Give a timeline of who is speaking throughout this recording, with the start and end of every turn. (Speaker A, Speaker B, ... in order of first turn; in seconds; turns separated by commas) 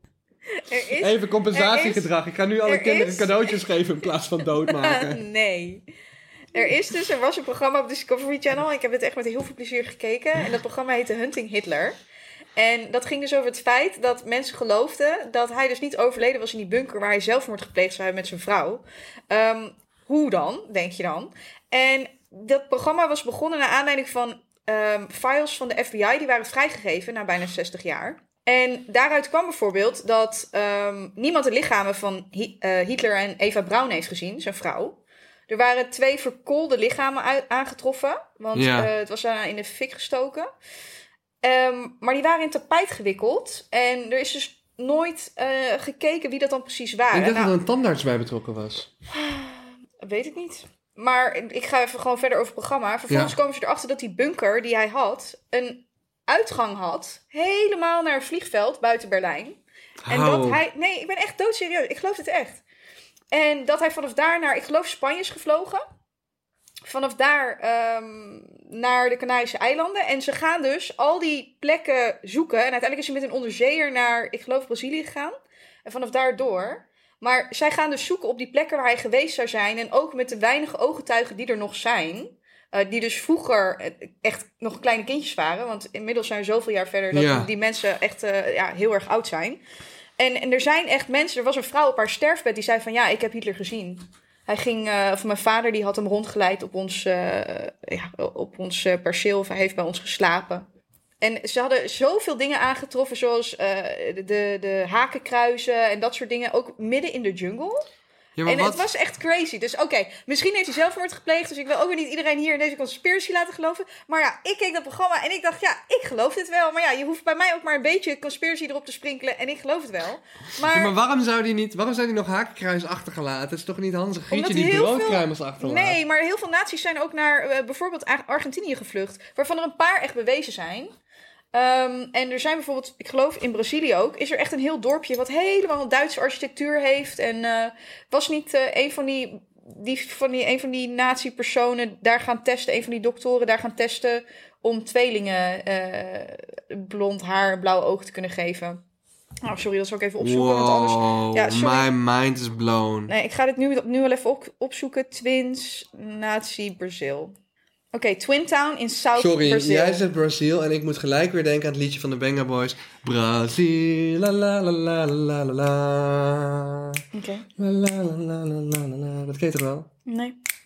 Speaker A: 0.6-2.1, Speaker B: 1.0-5.2, Speaker A: 2.6-3.6, Speaker A: 4.7-5.8, Speaker A: 6.5-12.0, Speaker A: 12.6-40.5, Speaker B: 38.5-38.9, Speaker A: 41.4-47.5, Speaker B: 47.1-48.9, Speaker A: 49.1-62.6, Speaker B: 53.1-53.4, Speaker B: 60.0-60.6, Speaker A: 63.3-65.8, Speaker A: 66.8-89.6, Speaker B: 87.1-87.5, Speaker A: 90.2-100.7, Speaker A: 101.2-107.9, Speaker B: 108.4-108.9, Speaker A: 108.5-120.9, Speaker B: 120.6-126.0, Speaker A: 124.3-130.9, Speaker A: 131.5-148.8, Speaker A: 149.4-151.9, Speaker B: 150.2-153.1, Speaker A: 153.1-157.3, Speaker A: 157.9-160.0, Speaker B: 159.2-167.0, Speaker A: 167.1-167.5, Speaker B: 167.6-169.9, Speaker A: 170.1-170.4